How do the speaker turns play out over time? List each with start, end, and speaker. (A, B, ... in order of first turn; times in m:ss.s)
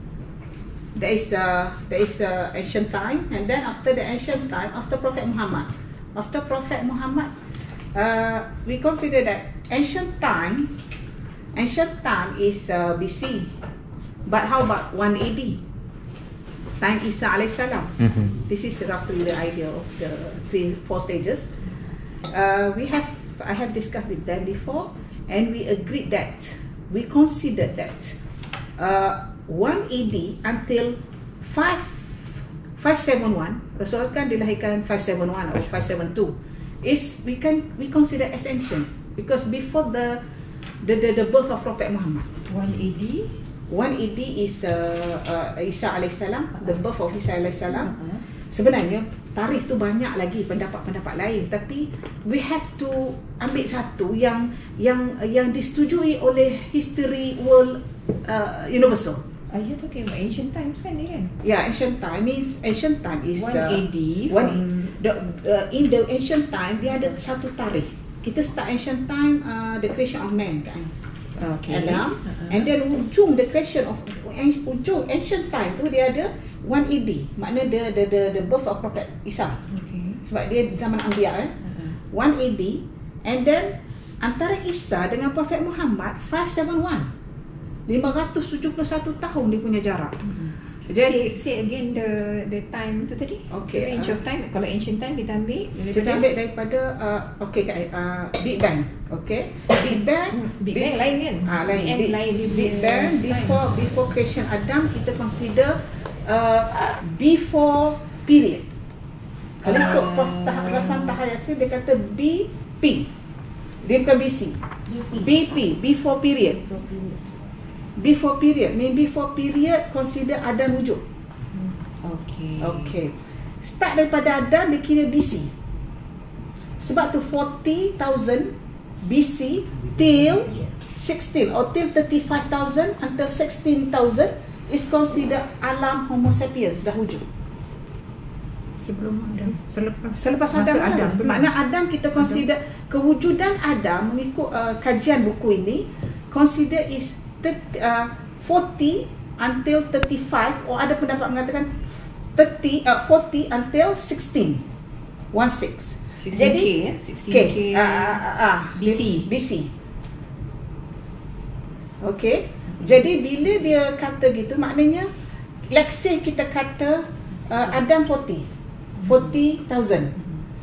0:00.9-0:07.3 A
0:07.9-0:10.7 A
0:11.5-0:13.5 A
0:14.2-0:15.6 A
0:16.8-0:21.5 A
0:22.2-0:28.2 A
0:28.8-0:40.2 A
0:40.8-0:42.3 A
0:42.4-0:43.4 B
0:43.7-0:47.9 A
0:47.7-0:48.2 B
0:48.5-0:59.2 A
0:59.5-1:01.3 B
1:01.4-1:10.9 A
1:03.3-1:04.9 B
1:11.4-1:12.6 B
1:11.7-1:19.6 A
1:19.7-1:20.2 B
1:20.2-1:21.5 A
1:21.7-1:21.9 B
1:22.1-1:27.1 A
1:27.9-1:30.2 A
1:30.4-1:36.3 B
1:30.9-1:31.2 A
1:33.5-1:34.2 A
1:35.9-1:48.6 A
1:40.3-1:43.7 B
1:49.6-1:51.2 B
1:49.6-1:53.1 A
1:53.8-1:54.6 A
1:54.9-1:55.3 B
1:55.1-1:56.6 A
1:56.6-1:57.4 B
1:58.0-2:01.0 A
2:02.0-2:02.9 B
2:02.6-2:05.5 A
2:06.8-2:17.2 A
2:18.8-2:21.5 C
2:20.1-2:34.6 A
2:35.3-2:36.7 A
2:36.2-2:38.2 B
2:37.3-2:39.7 A
2:38.8-2:39.3 B
2:42.0-2:45.1 A
2:45.7-2:48.4 A
2:49.0-2:50.1 A